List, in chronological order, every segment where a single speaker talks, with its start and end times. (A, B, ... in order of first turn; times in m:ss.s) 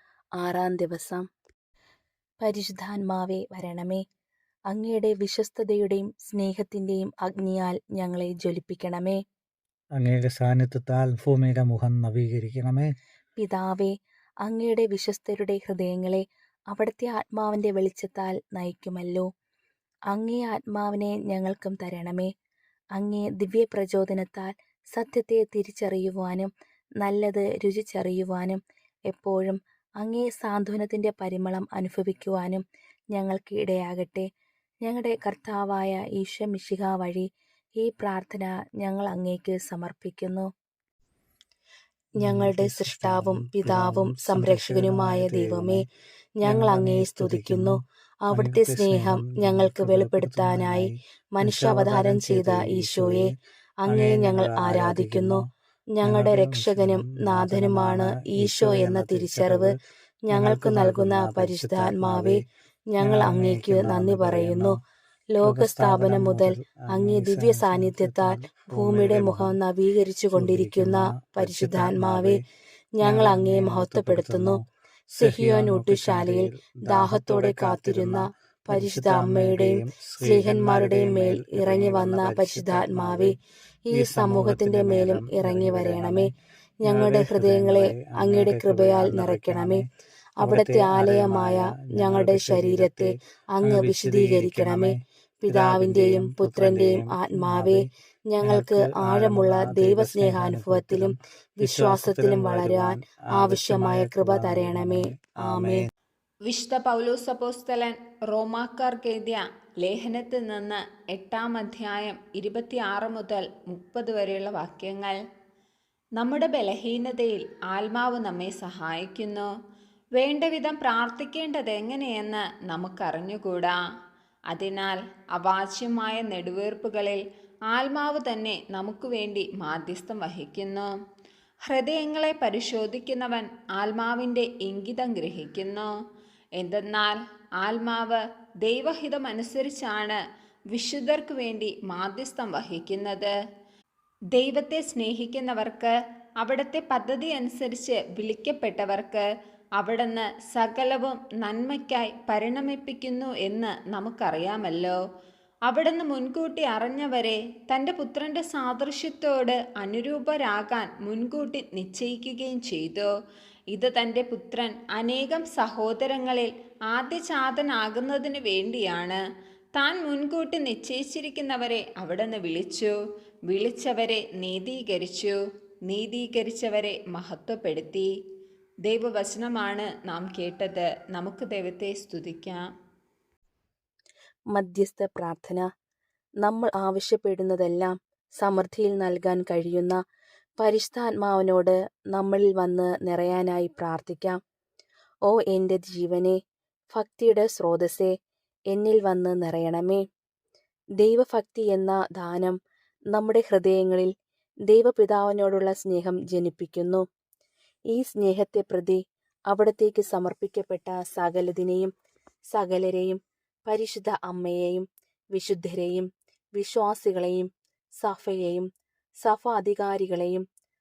0:00.4-0:01.2 A
0:02.4-0:04.0 A
0:04.7-0:09.2 A
0:10.0-0:12.9 B
0:13.4-0:13.9 A
0:14.4-0:19.3 A
0:20.1-0:22.3 A
0:23.0-0:26.5 A
0:27.0-0:32.6 A
0:33.1-0:34.3 A
0:34.8-0:37.3 A
0:37.8-0:40.5 A
0:42.2-0:45.8 A
0:42.2-0:45.8 B
0:46.4-0:59.7 A
0:46.4-0:47.8 B
0:48.3-0:53.3 B
0:53.9-0:55.4 B
0:56.0-0:59.8 B
1:00.3-1:04.8 A
1:00.3-1:02.4 B
1:03.0-1:04.8 B
1:05.3-1:12.4 A
1:05.4-1:09.6 B
1:10.3-1:12.4 B
1:13.0-1:14.6 A
1:13.0-1:14.6 B
1:15.2-1:23.4 A
1:15.2-1:23.4 B
1:23.9-1:29.8 A
1:23.9-1:26.3 B
1:26.8-1:29.8 B
1:30.4-1:45.8 A
1:30.4-1:37.9 B
1:38.4-1:45.8 B
1:46.4-1:55.2 C
1:56.2-1:59.5 C
2:00.2-2:03.8 C
2:04.5-2:10.9 C
2:11.6-2:15.9 C
2:16.6-2:20.2 C
2:20.7-2:23.3 C
2:24.3-2:29.2 C
2:29.8-2:35.0 C
2:35.7-2:43.1 C
2:43.7-2:49.2 C
2:49.8-2:52.9 C
2:53.5-2:55.4 C
2:55.9-2:58.1 C
2:58.8-3:02.6 C
3:04.5-3:05.6 A
3:06.4-3:10.0 A
3:10.6-3:14.4 A
3:15.3-3:16.4 A
3:16.9-3:18.1 A
3:18.7-3:20.0 A
3:21.0-3:22.6 A
3:23.1-3:24.1 A
3:24.7-3:27.0 A
3:27.9-3:29.0 A
3:29.5-3:31.9 A
3:32.5-3:37.5 A
3:38.0-3:38.6 A
3:39.2-3:40.4 A